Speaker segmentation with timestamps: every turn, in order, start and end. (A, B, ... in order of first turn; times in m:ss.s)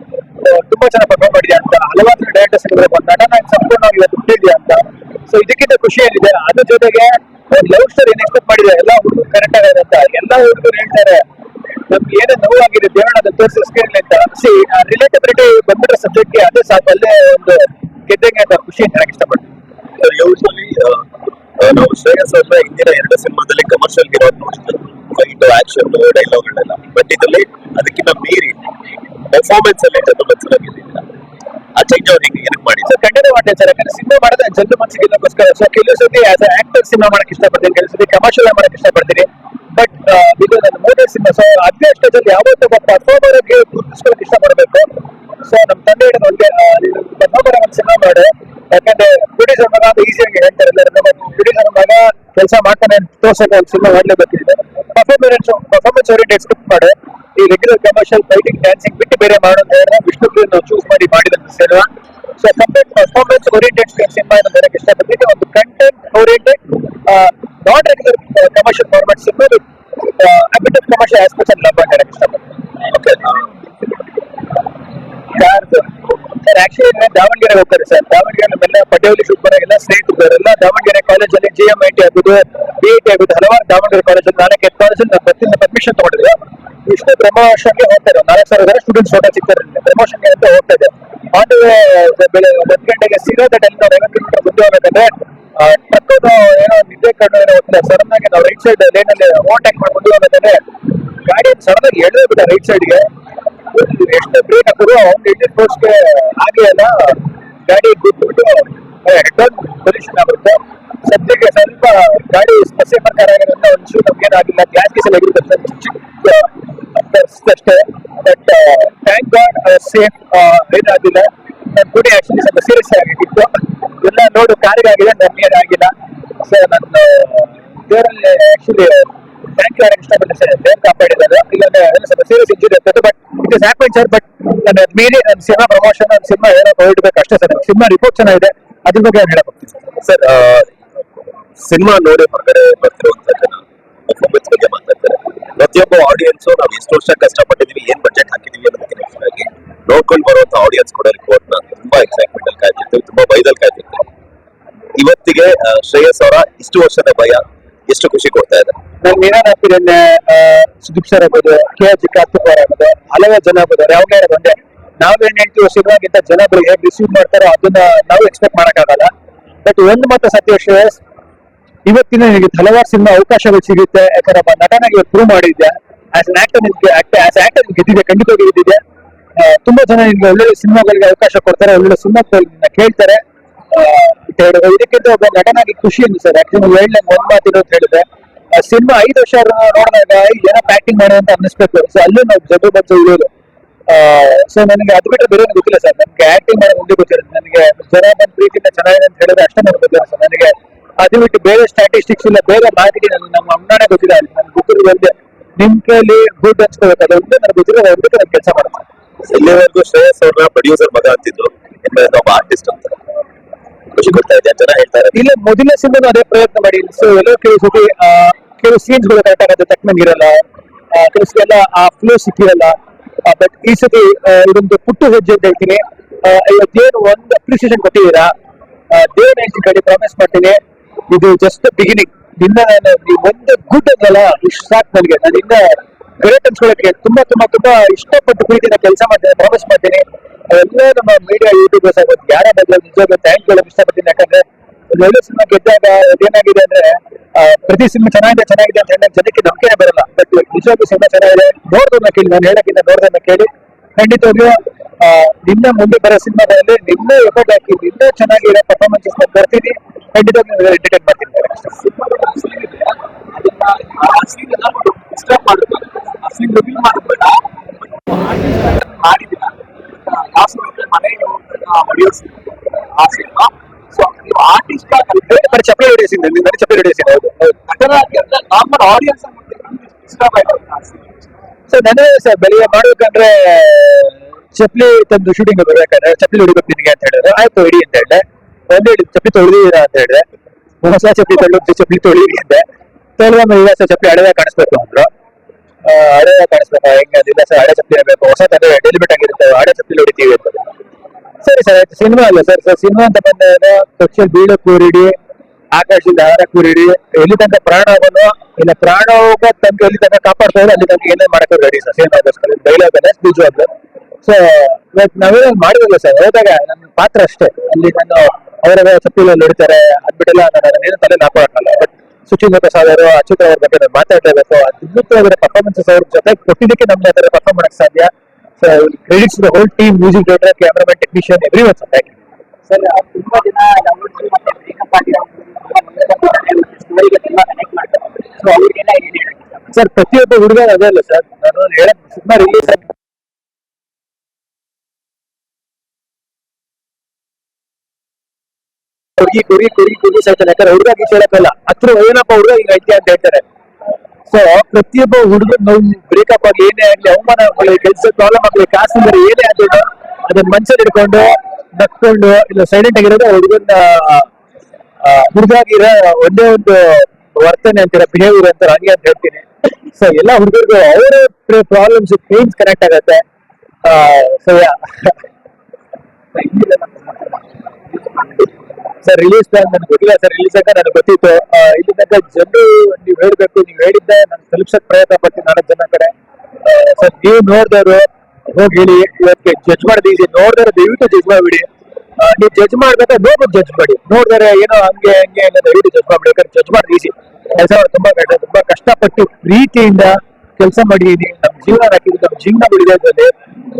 0:00.4-0:11.2 A
0:11.9-0:19.5 A
0:20.0-0:21.1 B
0:21.6-0:28.6 B
0:29.3-0:31.1 B
0:31.8-0:32.9 B
0:32.8-1:12.5 A
1:12.9-1:13.4 B
1:15.3-1:43.1 A
1:43.7-2:05.9 A
2:06.4-2:19.8 A
2:20.0-2:20.7 B
2:21.6-2:34.1 B
2:35.0-2:38.8 B
2:39.0-2:49.1 A
2:49.6-2:51.0 A
2:51.9-2:58.8 A
2:59.4-3:13.3 A
3:13.9-3:28.8 A
3:29.2-3:33.0 B
3:33.9-3:35.2 B
3:35.1-3:48.3 A
3:48.9-4:21.9 A
4:21.9-4:27.4 C
4:26.5-4:27.2 A
4:28.7-4:29.4 A
4:29.0-4:29.5 C
4:30.2-4:31.3 A
4:30.3-4:32.3 C
4:33.0-4:33.3 A
4:33.0-4:35.0 C
4:34.0-4:37.8 A
4:37.7-4:41.2 C
4:38.6-4:39.0 A
4:41.7-4:50.3 A
4:50.8-4:52.6 A
4:53.2-4:55.1 A
4:55.8-5:00.7 A
5:01.4-5:05.2 A
5:05.7-5:13.7 A
5:14.2-5:35.2 A
5:33.9-5:39.4 C
5:35.8-5:36.3 A
5:36.9-5:37.8 A
5:38.4-5:39.1 A
5:39.7-5:42.8 A
5:49.2-5:53.4 A
5:54.3-6:04.3 A
6:05.0-6:13.2 A
6:13.8-6:15.2 A
6:16.4-6:17.4 A
6:19.0-6:31.7 A
6:32.2-6:43.3 A